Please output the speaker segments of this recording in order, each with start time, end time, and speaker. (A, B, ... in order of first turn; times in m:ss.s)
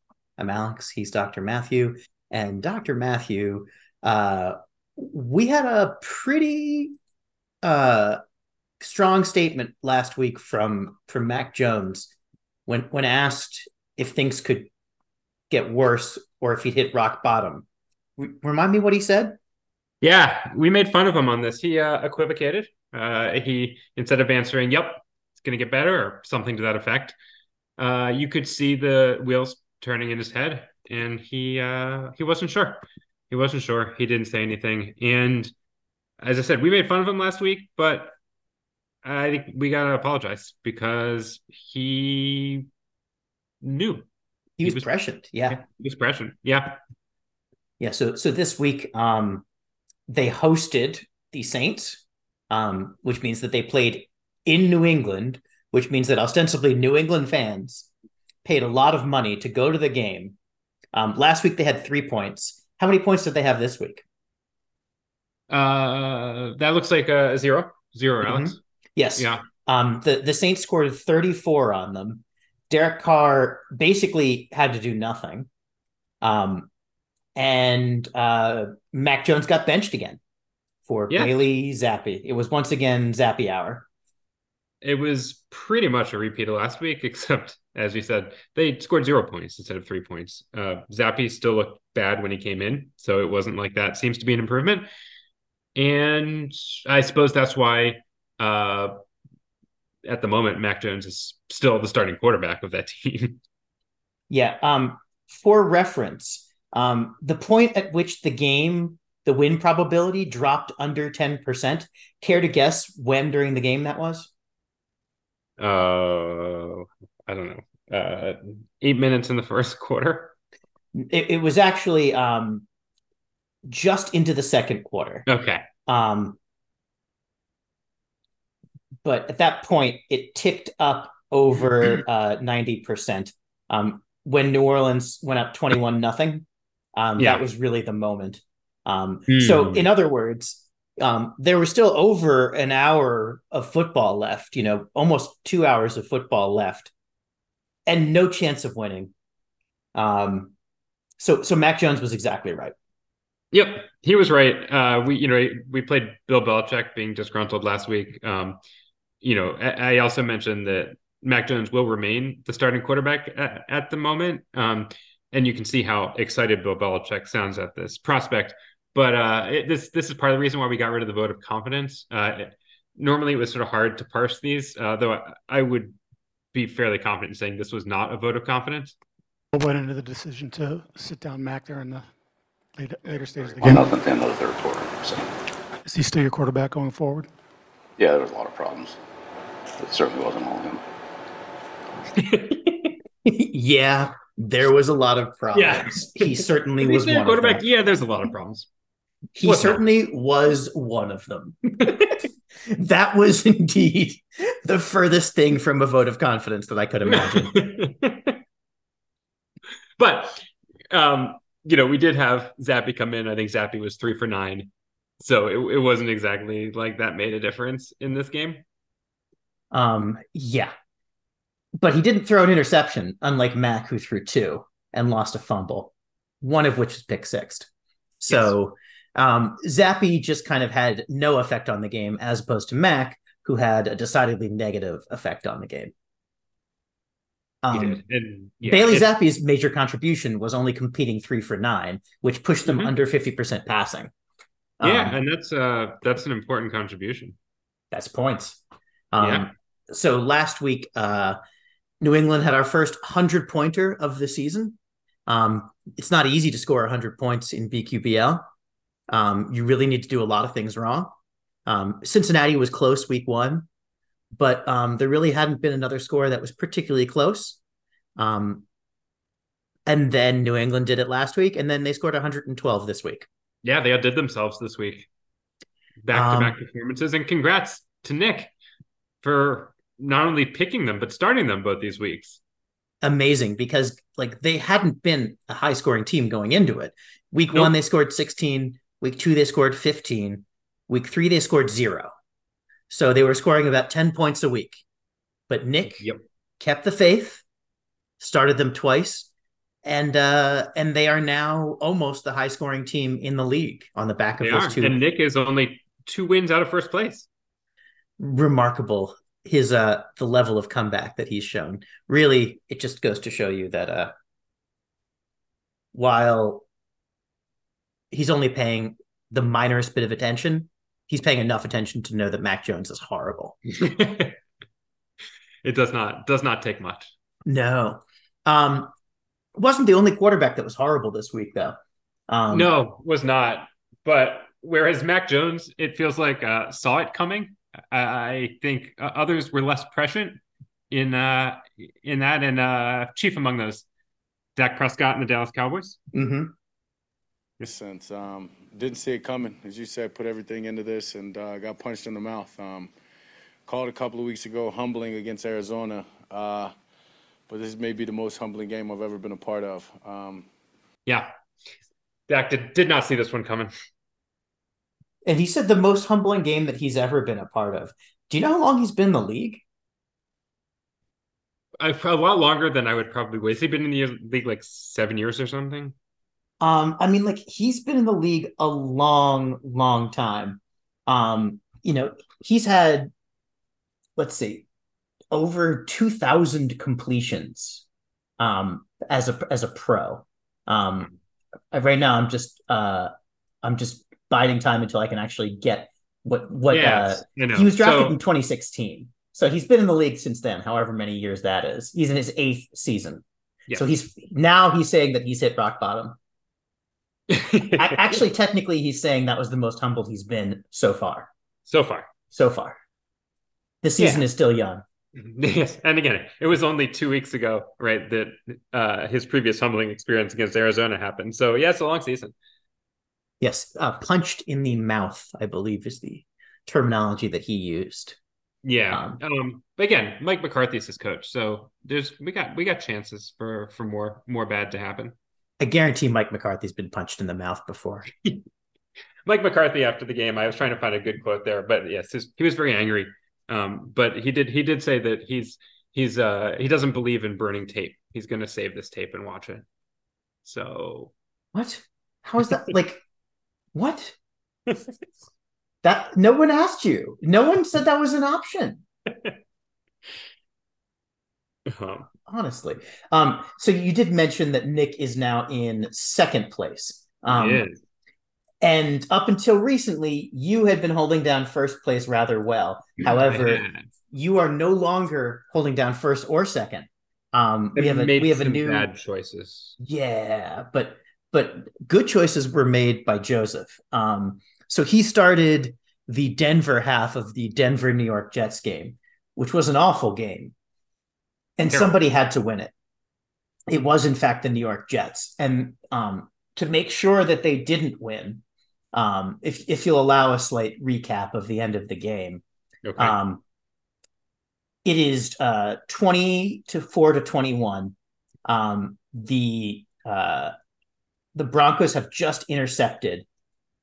0:00.4-0:07.0 A
0:07.6-0:08.2 A
0:08.8-0:12.1 A
0:12.7-0:14.7 A
0:15.5-0:17.6 A
0:18.2-0:19.4 A
0:20.0-0:27.1 B
0:27.8-0:35.5 B
0:36.2-0:38.1 B
0:39.0-0:42.6 B
0:43.6-0:44.0 B
0:44.6-0:45.6 A
0:44.6-0:44.9 B
0:45.5-0:46.8 B
0:47.8-0:49.4 A
0:50.1-0:57.9 A
0:58.4-1:00.4 A
1:00.9-1:04.0 A
1:05.5-1:08.6 B
1:08.2-1:15.5 A
1:09.2-1:09.4 B
1:16.2-1:16.7 A
1:17.4-1:20.2 A
1:20.8-1:23.9 A
1:24.8-1:34.9 B
1:35.7-1:39.0 B
1:40.0-1:43.4 B
1:44.3-1:54.3 A
1:55.6-2:00.3 B
2:00.9-2:02.6 A
2:03.7-2:05.3 A
2:05.3-2:05.6 B
2:05.8-2:06.4 A
2:09.0-2:16.4 A
2:17.0-2:26.9 A
2:19.3-2:19.9 B
2:27.9-2:29.1 A
2:29.9-2:30.5 A
2:31.2-2:32.7 A
2:33.5-2:38.6 B
2:39.2-2:56.0 B
2:56.5-2:59.0 B
2:59.5-3:02.1 C
3:02.7-3:03.9 C
3:03.6-3:05.3 D
3:05.8-3:07.3 C
3:08.0-3:09.0 D
3:09.8-3:10.8 D
3:12.2-3:12.9 B
3:13.2-3:17.6 A
3:15.5-3:18.7 B
3:19.4-3:21.9 A
3:19.4-3:19.8 B
3:22.7-3:27.5 A
3:27.1-3:28.4 B
3:30.0-3:34.7 B
3:35.2-3:38.6 B
3:39.7-3:40.7 A
3:41.8-3:47.7 A
3:48.2-3:55.9 A
3:57.6-3:58.0 A
3:57.7-3:59.1 B
3:58.6-4:04.1 A
4:02.6-4:02.9 B
4:04.8-4:05.2 A
4:04.8-4:07.4 B
4:07.9-4:08.6 A
4:09.1-4:11.4 A
4:09.2-4:09.5 B
4:12.0-4:18.4 A
4:19.1-4:21.1 A
4:21.6-4:23.7 A
4:24.4-4:27.6 A
4:28.2-4:28.6 A
4:29.8-4:33.3 A
4:33.6-4:35.1 B
4:36.0-4:38.5 B
4:36.1-4:36.6 A
4:39.2-4:42.4 B
4:43.0-4:52.1 A
4:52.9-4:54.8 A
4:55.5-4:56.1 A
4:56.6-4:57.4 A
4:58.2-4:59.3 A
4:59.8-5:04.9 A
5:04.4-5:07.3 B
5:08.2-5:14.1 A
5:15.9-5:16.6 A
5:18.1-5:23.6 A
5:23.7-5:24.4 B
5:25.6-5:27.1 B
5:27.4-5:28.9 A
5:29.6-5:31.8 A
5:32.3-5:32.7 A
5:32.5-5:43.8 B
5:44.6-5:46.0 B
5:46.1-5:46.5 A
5:47.6-5:52.9 E
5:53.6-5:56.7 E
5:57.5-6:00.5 E
6:02.3-6:03.7 B
6:05.2-6:09.6 A
6:11.8-6:15.9 B
6:16.6-6:23.1 A
6:24.2-6:24.6 A
6:25.3-6:27.8 A
6:28.4-6:31.1 A
6:31.7-6:33.1 A
6:33.6-6:46.2 A
6:36.7-6:38.2 B
6:47.3-6:48.2 B
6:47.8-6:51.3 A
6:51.7-6:52.1 B
6:52.3-6:52.8 A
6:53.8-6:54.8 A
6:54.0-6:54.2 B
6:55.1-7:02.3 B
7:03.4-7:08.2 A
7:08.6-7:15.2 B
7:08.9-7:09.2 A
7:15.6-7:18.1 A
7:19.2-7:29.6 B
7:30.4-7:31.1 B
7:31.5-7:33.0 A
7:33.7-7:34.2 A
7:35.8-7:38.8 A
7:41.7-7:42.1 B
7:42.3-7:47.6 A
7:47.3-7:47.7 B
7:48.6-7:58.9 A
7:53.0-7:53.8 B
7:57.8-7:59.8 B
7:59.8-8:10.5 A
8:11.6-8:12.7 A
8:11.6-8:11.9 B
8:13.7-8:22.4 A
8:22.8-8:23.2 B
8:23.0-8:23.4 A
8:24.8-8:27.9 A
8:28.5-8:30.5 A
8:31.3-8:33.2 A